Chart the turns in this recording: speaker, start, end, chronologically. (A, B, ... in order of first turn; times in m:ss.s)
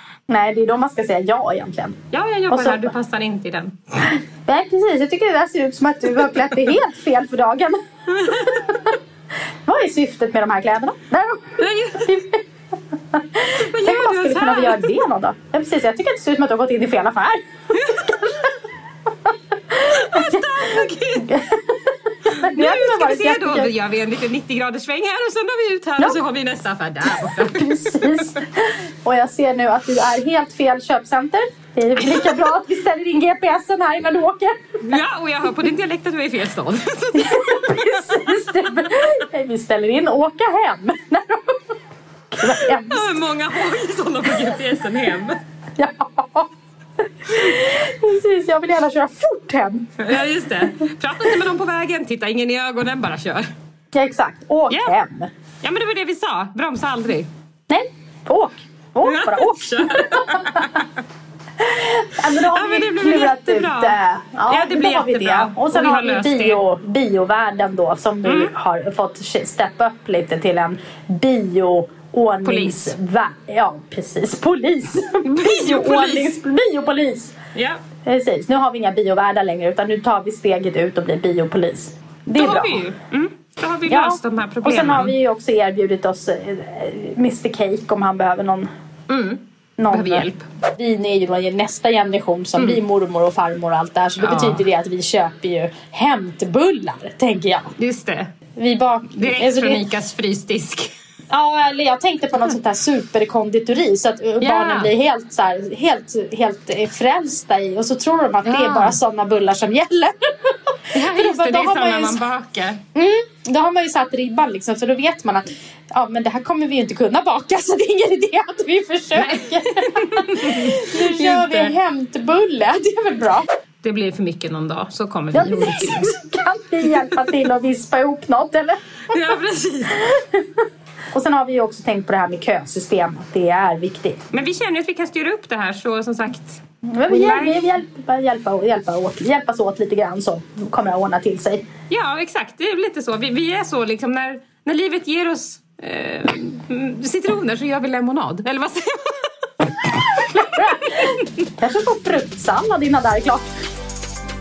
0:00.3-0:02.0 A
0:02.1-0:03.8 B
0:02.5-0:02.9 A
0:04.5-0:08.9 A
0:08.3-0:08.6 B
0:09.7-0:12.4 A
0:11.6-0:12.1 B
0:13.1-0:17.4 A
0:13.6-0:14.9 B
0:17.8-0:18.4 B
0:19.8-0:21.3 B
0:20.1-0:20.6 A
0:21.2-0:23.7 A
0:22.3-0:28.4 B
0:27.3-0:35.0 A
0:34.9-0:37.9 B
0:37.2-0:41.6 A
0:42.3-0:43.1 A
0:42.4-0:45.4 B
0:45.8-0:46.5 A
0:47.3-0:50.1 A
0:50.0-0:53.4 B
0:53.9-0:55.3 A
0:55.6-0:57.3 B
0:57.7-1:00.6 A
0:59.0-1:01.0 B
1:01.6-1:17.3 A
1:02.5-1:04.0 B
1:04.5-1:06.6 B
1:08.3-1:08.5 B
1:12.4-1:12.9 B
1:15.2-1:16.3 B
1:17.6-1:17.8 B
1:18.0-1:22.9 A
1:22.4-1:25.2 B
1:23.9-1:28.7 A
1:29.1-1:30.4 B
1:29.8-1:37.7 A
1:34.2-1:34.6 B
1:37.8-1:38.3 B
1:38.6-1:39.9 A
1:39.2-1:40.9 B
1:41.3-1:52.2 A
1:44.4-1:44.9 B
1:48.4-1:49.0 B
1:50.9-1:52.8 B
1:53.0-2:03.4 A
1:59.2-2:01.7 B
2:03.8-2:06.2 B
2:05.3-2:09.2 A
2:06.9-2:07.2 B
2:09.1-2:10.0 B
2:11.1-2:14.2 A
2:14.3-2:17.8 B
2:16.9-2:21.6 A
2:21.9-2:31.1 B
2:30.3-2:33.5 A